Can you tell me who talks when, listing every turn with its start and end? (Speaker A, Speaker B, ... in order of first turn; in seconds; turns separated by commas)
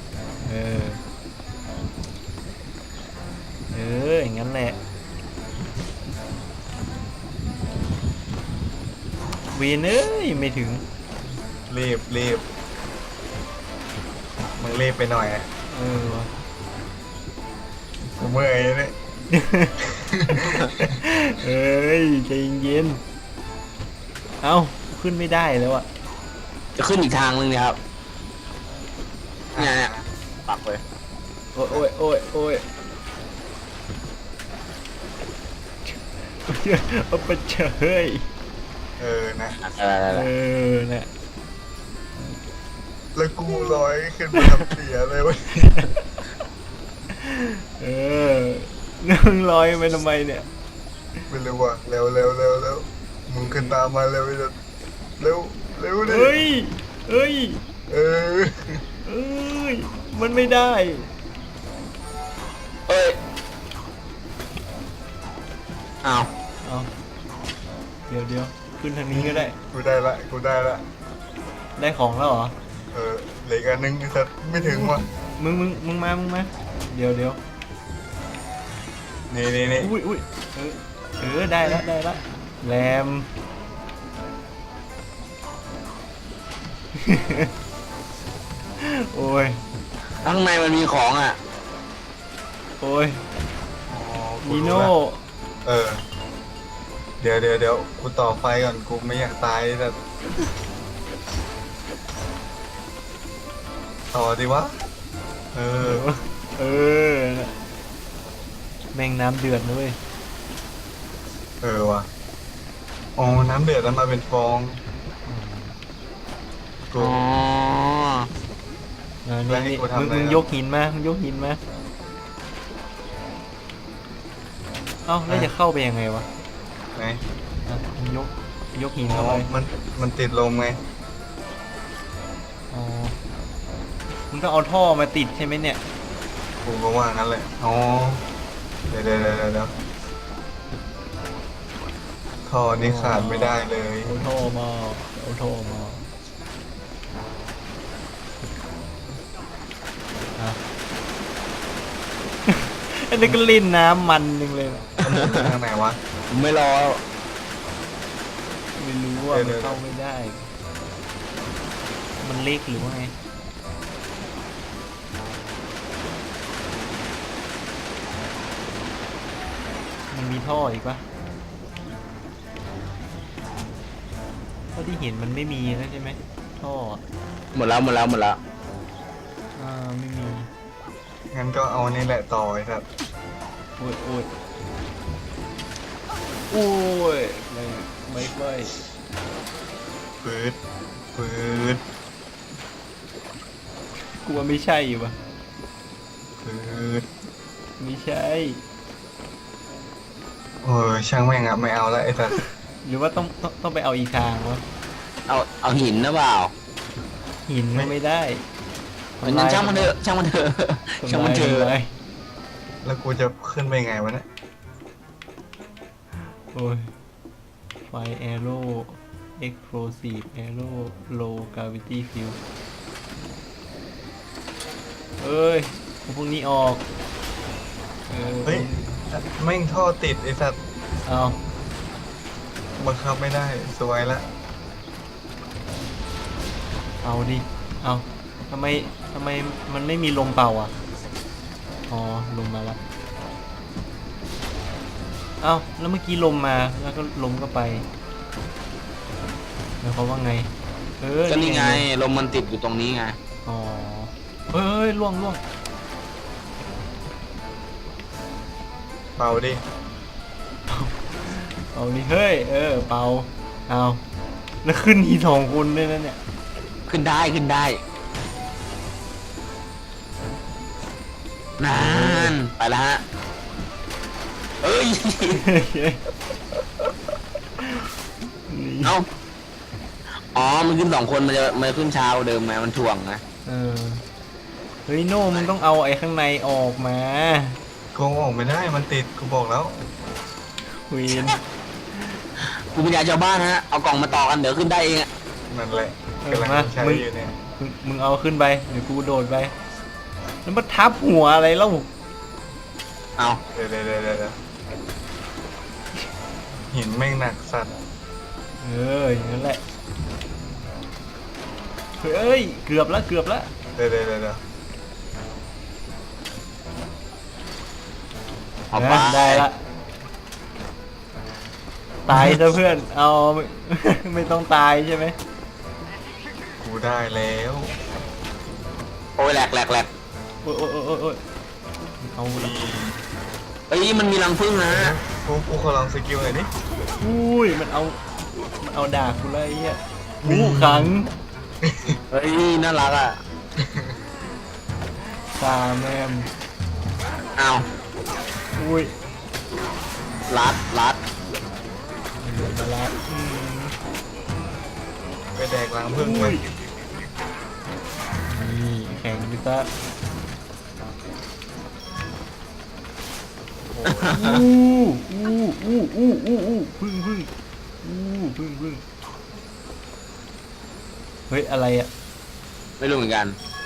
Speaker A: 0.4-1.0, Speaker A: 3.7-4.8, Speaker A: 9.5-10.8, Speaker B: 11.7-12.4, Speaker B: 14.6-15.5, Speaker A: 15.7-16.3, Speaker B: 18.1-18.9, Speaker A: 19.3-19.8, Speaker B: 19.9-20.9, Speaker A: 20.9-23.0, Speaker A: 24.4-25.9, Speaker C: 26.8-27.8, Speaker B: 29.5-30.1, Speaker C: 29.6-29.9, Speaker C: 30.5-30.8, Speaker A: 31.5-32.6, Speaker A: 35.9-38.2, Speaker B: 39.0-39.6, Speaker C: 39.6-40.3, Speaker A: 40.1-41.1, Speaker B: 43.1-45.8, Speaker A: 47.1-50.5, Speaker B: 51.3-54.5, Speaker A: 53.4-53.8, Speaker B: 55.2-56.3, Speaker A: 56.0-57.6, Speaker B: 57.9-58.8, Speaker A: 59.0-61.1, Speaker C: 62.9-63.2, Speaker C: 66.0-66.3, Speaker A: 66.6-66.9, Speaker A: 68.1-69.5, Speaker B: 69.1-70.8, Speaker A: 71.8-72.5, Speaker B: 72.9-75.0, Speaker A: 74.5-77.4, Speaker B: 79.3-79.9, Speaker A: 79.8-83.3, Speaker A: 86.9-87.5, Speaker A: 88.8-89.6, Speaker C: 90.2-91.4, Speaker A: 92.8-93.2, Speaker B: 93.9-94.9, Speaker A: 94.4-95.2, Speaker B: 95.6-96.0, Speaker B: 97.2-100.0, Speaker B: 104.1-104.8, Speaker B: 105.5-106.0, Speaker A: 105.8-107.5, Speaker A: 108.9-110.0, Speaker B: 111.6-112.1, Speaker B: 113.2-114.8, Speaker A: 115.2-115.8, Speaker B: 116.9-117.2, Speaker C: 117.0-118.3, Speaker A: 119.2-121.6, Speaker B: 119.5-120.4, Speaker A: 125.0-126.3, Speaker B: 126.9-127.2, Speaker A: 127.7-129.5, Speaker B: 129.1-130.8, Speaker A: 132.7-133.1, Speaker A: 134.3-135.8, Speaker B: 136.6-138.2, Speaker B: 138.9-139.7, Speaker B: 142.4-144.1, Speaker A: 142.8-146.0, Speaker A: 152.5-154.9, Speaker B: 155.0-156.0, Speaker C: 155.1-155.4, Speaker C: 156.3-157.0, Speaker A: 158.8-160.5, Speaker B: 159.3-159.8, Speaker A: 162.2-163.1, Speaker A: 170.1-171.0, Speaker A: 174.7-177.0, Speaker C: 177.5-178.4, Speaker A: 179.6-180.5, Speaker B: 181.3-182.8, Speaker A: 183.8-184.3, Speaker A: 186.5-188.7, Speaker B: 190.2-190.6, Speaker B: 191.1-191.8, Speaker A: 194.2-195.2, Speaker B: 196.4-197.1, Speaker A: 197.8-198.6, Speaker B: 200.6-202.4, Speaker A: 202.8-204.6, Speaker C: 205.3-206.5, Speaker A: 207.5-208.4, Speaker A: 209.2-209.9, Speaker C: 209.2-211.7, Speaker A: 211.0-211.9, Speaker B: 212.8-214.2, Speaker A: 216.5-216.9, Speaker A: 217.9-222.4, Speaker A: 225.2-226.8, Speaker A: 228.1-228.8, Speaker B: 228.4-230.6, Speaker A: 231.1-231.4, Speaker B: 232.8-234.2, Speaker A: 237.0-240.7, Speaker A: 241.9-242.8, Speaker A: 245.4-247.8, Speaker A: 249.8-251.8, Speaker C: 251.3-253.2, Speaker A: 253.4-255.4, Speaker B: 259.2-259.6, Speaker A: 260.7-264.0, Speaker A: 264.6-266.2, Speaker C: 266.9-267.8, Speaker C: 271.6-273.0, Speaker A: 271.7-272.4, Speaker C: 274.6-275.4, Speaker A: 275.3-276.0, Speaker A: 278.5-278.9, Speaker C: 280.3-283.2, Speaker A: 283.4-284.0, Speaker A: 284.9-287.6, Speaker B: 287.9-289.7, Speaker A: 290.9-291.4, Speaker C: 292.7-295.1, Speaker B: 295.5-297.3, Speaker A: 296.2-299.5, Speaker A: 300.4-301.9, Speaker B: 303.5-304.4, Speaker B: 306.5-307.7, Speaker A: 308.6-309.6, Speaker A: 312.0-313.5, Speaker B: 313.8-314.4, Speaker C: 318.7-319.4, Speaker A: 318.7-319.6, Speaker A: 322.1-325.1, Speaker B: 326.6-327.7, Speaker C: 329.2-329.9, Speaker A: 330.4-331.2, Speaker A: 332.0-332.6, Speaker B: 332.3-333.0, Speaker C: 333.7-334.9, Speaker B: 334.6-336.5, Speaker A: 337.0-341.1, Speaker B: 340.2-340.9, Speaker B: 341.6-342.0, Speaker C: 342.1-343.2, Speaker B: 343.6-344.0, Speaker A: 345.3-346.3, Speaker C: 347.4-347.6, Speaker A: 348.6-348.9, Speaker C: 350.3-351.0, Speaker A: 352.2-353.7, Speaker B: 355.4-356.4, Speaker A: 355.9-356.5, Speaker A: 358.3-359.7, Speaker A: 363.7-367.3, Speaker C: 363.9-364.4, Speaker A: 367.8-368.8, Speaker A: 371.3-371.9, Speaker C: 372.8-373.4